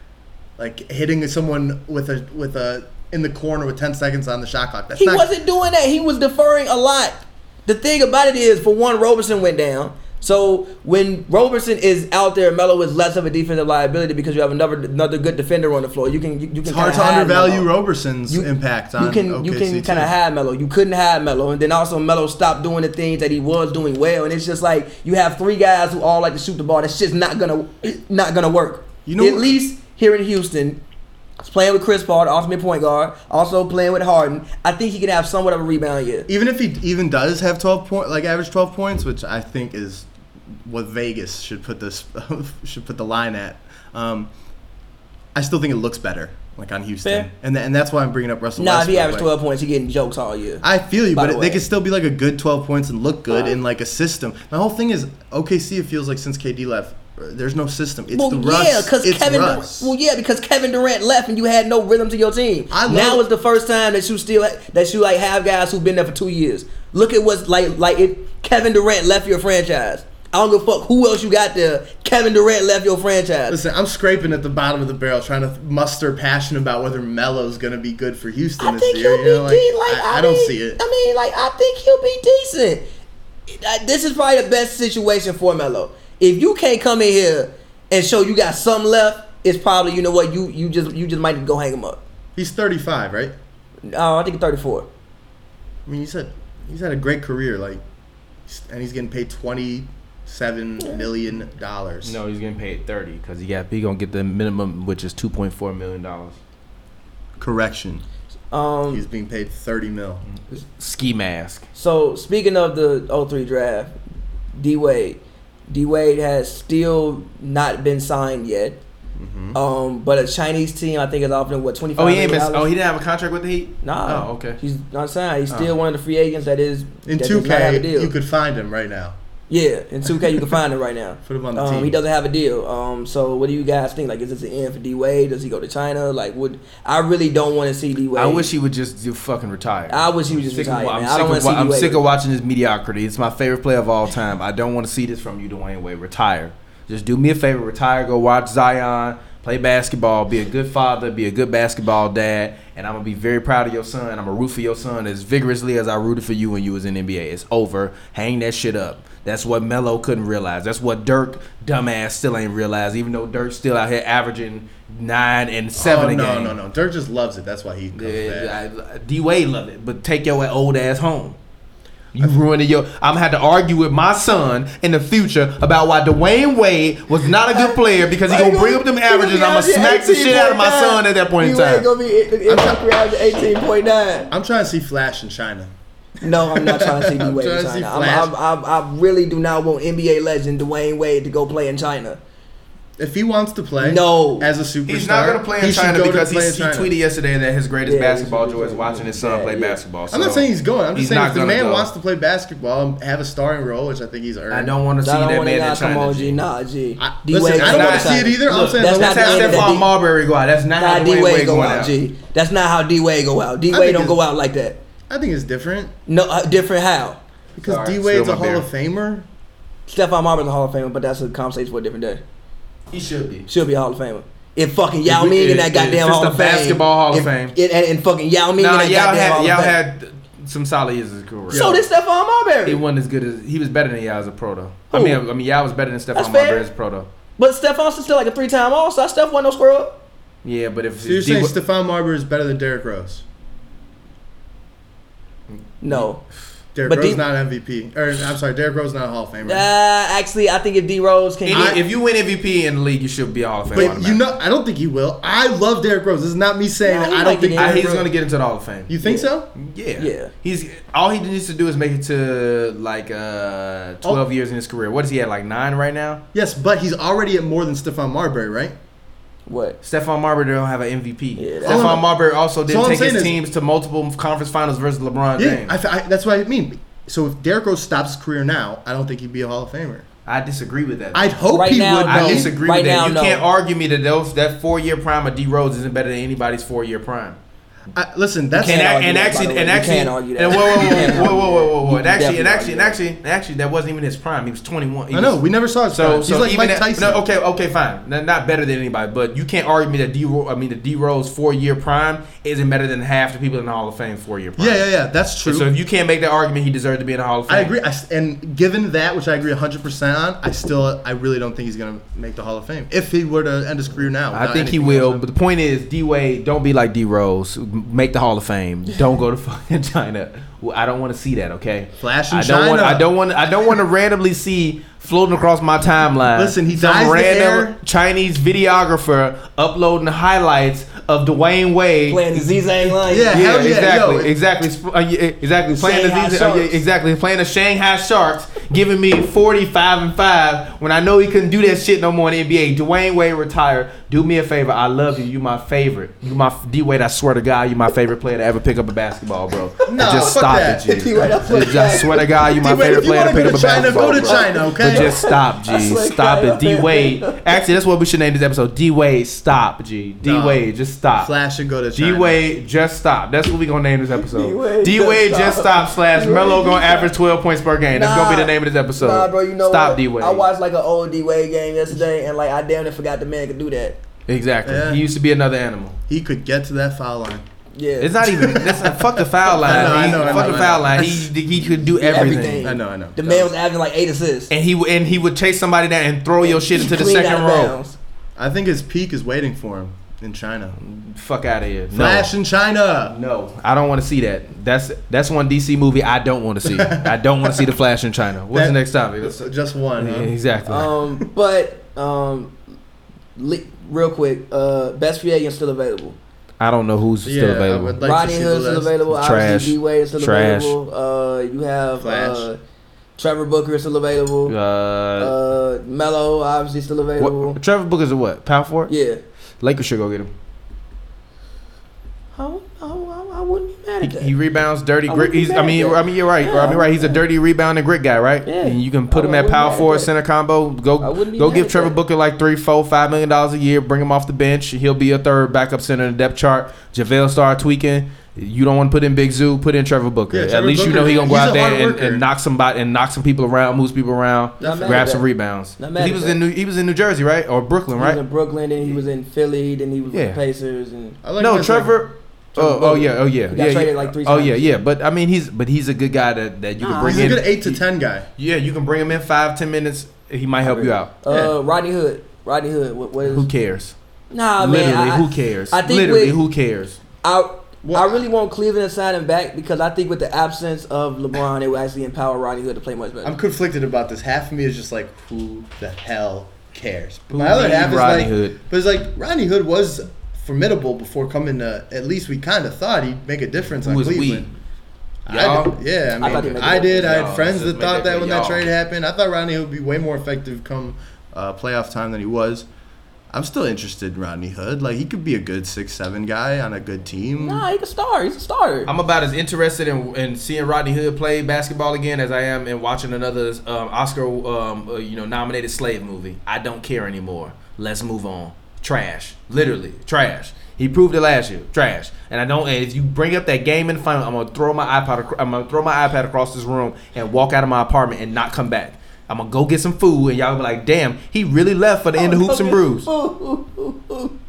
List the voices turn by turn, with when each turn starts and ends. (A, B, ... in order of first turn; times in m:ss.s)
0:00.6-0:05.3 A
0:05.0-0:17.7 B
0:16.6-0:20.1 A
0:18.3-0:30.8 B
0:29.0-0:29.6 A
0:31.4-0:36.3 B
0:36.3-0:40.1 A
0:40.6-0:44.3 A
0:45.3-0:49.3 A
0:47.0-0:47.3 B
0:48.6-0:51.6 B
0:50.6-0:59.9 A
0:58.1-1:13.6 B
1:02.7-1:03.2 A
1:13.5-1:20.8 A
1:18.6-1:22.8 B
1:23.5-1:32.0 B
1:32.4-1:33.3 A
1:33.8-1:34.9 B
1:35.8-1:37.8 A
1:38.5-1:42.2 A
1:40.8-1:41.0 B
1:42.0-1:46.4 C
1:47.4-1:48.0 A
1:48.5-1:49.0 B
1:48.9-1:50.2 A
1:50.3-1:51.6 C
1:51.7-1:53.9 B
1:54.5-1:58.8 B
1:59.2-1:59.6 A
1:59.5-2:02.7 B
2:02.0-2:04.6 C
2:03.8-2:08.1 B
2:07.0-2:09.2 A
2:09.5-2:18.5 B
2:10.2-2:10.5 A
2:11.2-2:12.0 A
2:18.2-2:46.6 C
2:19.9-2:22.1 B
2:45.8-2:48.5 A
2:47.9-2:51.4 C
2:52.1-3:01.9 C
2:57.5-3:04.3 B
3:02.4-3:02.8 A
3:04.3-3:05.7 A
3:06.2-3:12.2 B
3:06.2-3:08.3 A
3:13.0-3:16.9 A
3:13.8-3:14.5 B
3:14.9-3:21.9 C
3:17.8-3:19.8 B
3:20.1-3:24.7 A
3:24.5-3:26.4 C
3:25.0-3:29.9 B
3:27.0-3:29.7 A
3:27.6-3:31.9 C
3:30.8-3:34.8 B
3:33.7-3:34.2 A
3:35.1-3:35.9 A
3:36.1-3:37.2 B
3:37.6-3:39.2 A
3:37.6-3:38.6 C
3:39.9-3:42.2 B
3:42.9-3:43.5 C
3:43.5-3:49.7 B
3:45.0-3:47.5 C
3:48.6-3:51.7 C
3:51.5-3:51.8 A
3:51.5-3:52.8 B
3:52.6-3:57.1 C
3:54.9-3:55.2 B
3:56.1-3:56.7 B
3:57.4-4:00.0 B
4:00.4-4:01.5 C
4:01.0-4:03.2 A
4:05.5-4:06.0 C
4:05.8-4:06.2 B
4:06.7-4:09.7 A
4:06.8-4:07.2 B
4:09.4-4:11.8 B
4:11.4-4:14.2 C
4:11.5-4:11.8 A
4:13.7-4:18.1 A
4:16.8-4:17.9 B
4:17.6-4:18.9 C
4:18.9-4:19.5 A
4:19.0-4:19.3 B
4:19.6-4:26.2 C
4:20.0-4:20.3 B
4:26.3-4:28.7 A
4:29.5-4:29.8 B
4:29.8-4:35.7 C
4:31.4-4:32.0 B
4:31.6-4:32.1 A
4:32.6-4:33.4 A
4:35.4-4:40.0 A
4:40.2-4:41.3 C
4:41.1-4:42.5 A
4:41.5-4:43.4 B
4:42.1-4:47.4 C
4:47.9-4:49.0 A
4:48.6-4:53.0 B
4:48.6-5:04.8 C
4:50.8-4:51.1 A
4:55.1-4:57.2 A
5:04.6-5:05.7 A
5:05.4-5:07.7 C
5:07.5-5:15.2 A
5:14.3-5:32.5 C
5:22.0-5:23.1 A
5:26.3-5:27.7 A
5:32.1-5:33.8 B
5:33.0-5:34.3 A
5:33.3-6:01.3 C
5:35.7-5:36.8 B
5:49.8-5:57.6 B
5:49.9-5:55.3 A
6:00.2-6:00.6 A
6:01.2-6:02.4 A
6:01.9-6:10.4 C
6:04.2-6:07.1 B
6:07.9-6:14.0 B
6:14.3-6:16.0 C
6:14.6-6:15.0 A
6:16.1-6:17.4 A
6:17.7-6:18.6 B
6:18.0-6:22.6 C
6:18.2-6:21.3 A
6:19.5-6:20.9 B
6:22.0-6:24.5 B
6:22.5-6:23.5 A
6:24.5-6:27.7 C
6:26.4-6:28.0 B
6:28.4-6:30.8 A
6:30.8-6:32.3 C
6:31.9-6:33.1 A
6:33.0-6:39.5 C
6:36.6-6:37.7 A
6:38.5-6:40.3 A
6:40.0-6:40.9 C
6:40.7-6:42.5 B
6:43.4-6:46.2 B
6:46.6-6:48.0 C
6:47.2-6:49.0 A
6:48.0-6:52.6 B
6:49.1-6:50.7 C
6:52.0-6:52.5 A
6:53.2-6:54.5 B
6:54.4-6:55.3 C
6:55.2-6:57.6 B
6:57.2-6:58.9 C
6:58.9-6:59.2 B
6:59.6-7:00.3 C
7:02.3-7:04.3 B
7:04.0-7:28.2 C
7:05.1-7:07.2 B
7:08.4-7:10.1 B
7:11.0-7:11.9 B
7:20.3-7:22.2 A
7:24.6-7:25.3 B
7:24.6-7:25.1 A
7:25.8-7:26.4 B
7:28.0-7:31.2 B
7:30.1-7:30.4 C
7:31.2-7:32.0 A
7:31.4-7:37.8 C
7:32.5-7:34.7 B
7:36.8-7:37.4 B
7:37.0-7:38.3 A
7:38.4-7:41.1 C
7:40.6-7:43.5 B
7:41.3-7:41.5 A
7:43.2-7:43.9 C
7:44.3-7:46.4 B
7:44.6-7:47.0 C
7:47.2-7:53.3 B
7:47.8-7:48.2 A
7:53.2-8:04.5 A
7:57.3-7:58.6 C
8:03.8-8:04.5 C
8:05.3-8:08.7 C
8:05.3-8:12.7 A
8:06.2-8:07.2 B
8:13.3-8:17.6 A
8:17.4-8:18.9 B
8:18.9-8:43.1 C
8:42.2-8:44.3 B